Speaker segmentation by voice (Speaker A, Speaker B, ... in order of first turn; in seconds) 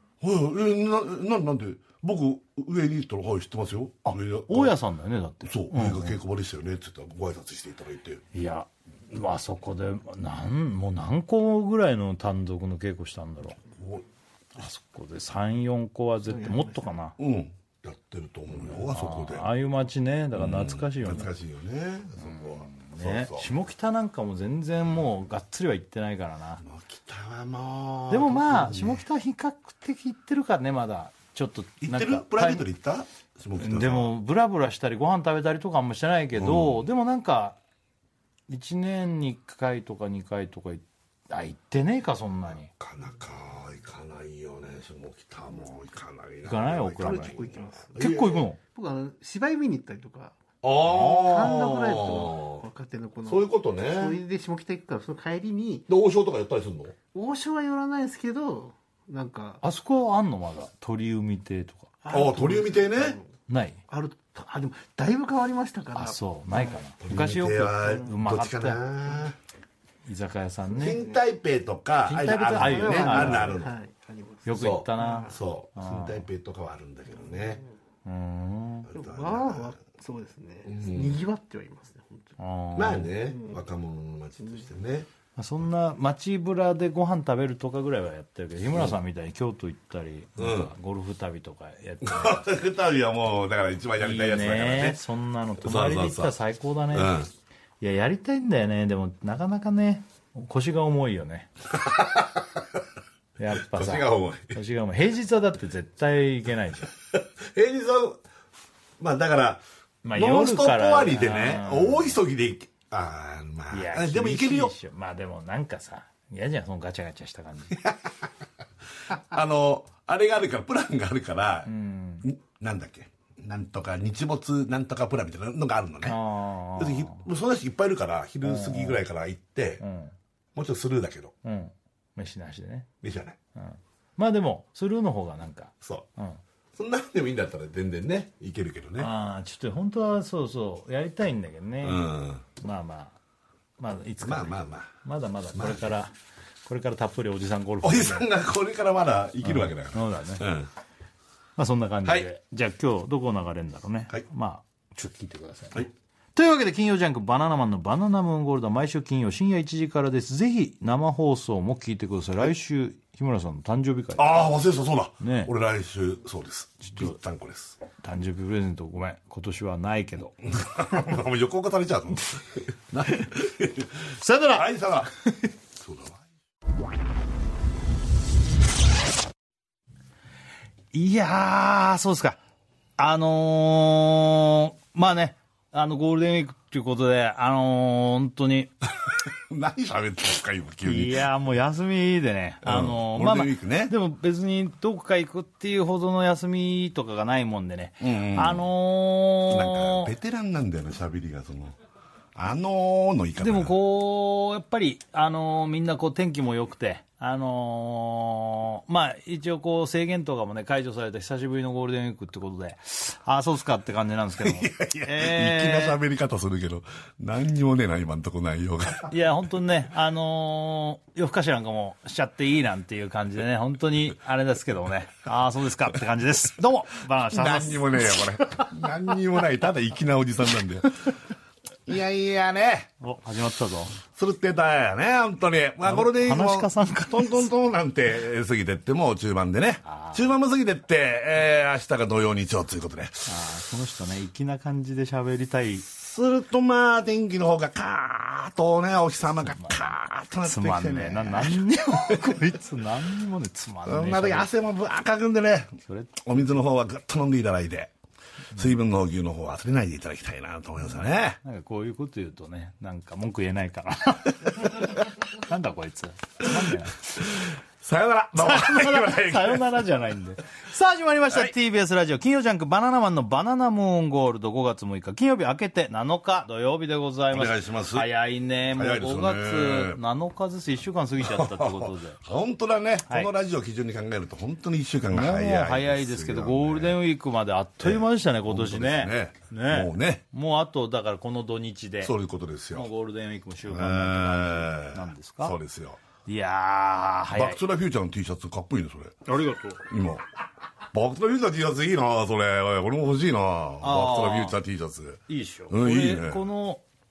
Speaker A: 0.2-4.7, 5.4-8.2, 13.7-14.0, 17.2-19.5, 20.3-23.5, 26.6-29.0, 31.8-34.1, 36.3-36.8, 42.7-48.4, 50.6-52.6, 53.2-54.2, 55.9-57.0, 62.1-63.2, 67.0-69.3, 70.7-73.7, 74.5-77.6, 78.9-79.7, 80.7-81.2, 82.7-85.1, 90.4-90.7, 92.0-95.0, 95.6-96.3, 96.9-97.3, 101.7-102.8, 103.6-104.6, 107.1-108.2, 109.0-109.6, 110.1-114.7, 117.7-118.3, 119.0-121.7, 122.2-126.2, 126.8-129.8, 130.5-131.3, 133.0-133.4, 135.8-136.1, 136.7-139.1, 141.8-142.4, 144.2-144.9, 145.5-145.9, 147.8-150.7, 164.2-167.8, 170.4-175.1, 175.8-176.2, 189.0-191.2, 192.6-193.9, 198.0-198.7, 199.5-201.8, 202.3-203.7, 214.4-219.1, 227.3-231.2, 231.8-232.9, 234.1-243.3, 245.8-252.5, 253.8-257.9, 258.5-261.4, 267.1-269.6, 277.3-278.1, 278.7-280.0, 281.2-287.0, 287.8-290.2, 292.0-292.9, 293.7-296.0, 297.3-299.2, 299.9-300.2, 300.9-306.4
Speaker B: 4.0-6.2, 8.3-13.6, 14.6-17.1, 18.6-21.3, 22.2-26.6, 28.1-32.6, 33.6-37.6, 38.5-42.7, 46.4-47.4, 48.0-48.6, 59.6-62.0, 63.5-63.8, 65.9-68.8, 70.0-71.0, 72.0-73.6, 74.5-76.2, 78.0-78.9, 82.4-83.1, 85.4-92.5, 94.0-97.3, 97.8-101.5, 103.4-106.9, 110.0-112.2, 113.7-117.8, 121.7-122.2, 126.0-127.2, 128.4-129.0, 129.8-130.1, 131.4-132.9, 133.6-136.4, 139.0-142.0, 142.6-143.2, 143.8-146.1, 146.7-148.2, 149.4-150.4, 151.6-164.5, 165.2-165.5, 166.8-167.2, 168.0-170.3, 174.2-174.7, 180.9-182.4, 183.0-188.7, 190.8-200.1, 203.4-216.0, 219.1-228.7, 233.0-234.0, 235.8-237.5, 239.8-240.3, 243.2-245.8, 249.4-254.5, 255.8-256.1, 261.4-267.0, 268.3-282.2, 285.1-292.1, 292.7-295.6, 296.2-297.6, 299.2-299.8, 303.8-304.6, 305.3-306.8
Speaker C: 16.3-16.7, 47.0-50.4, 50.9-55.9, 57.1-59.6, 62.0-63.3, 63.9-66.8, 70.8-71.2, 72.4-75.4, 77.3-77.6, 78.9-82.3, 83.1-83.6, 84.4-84.6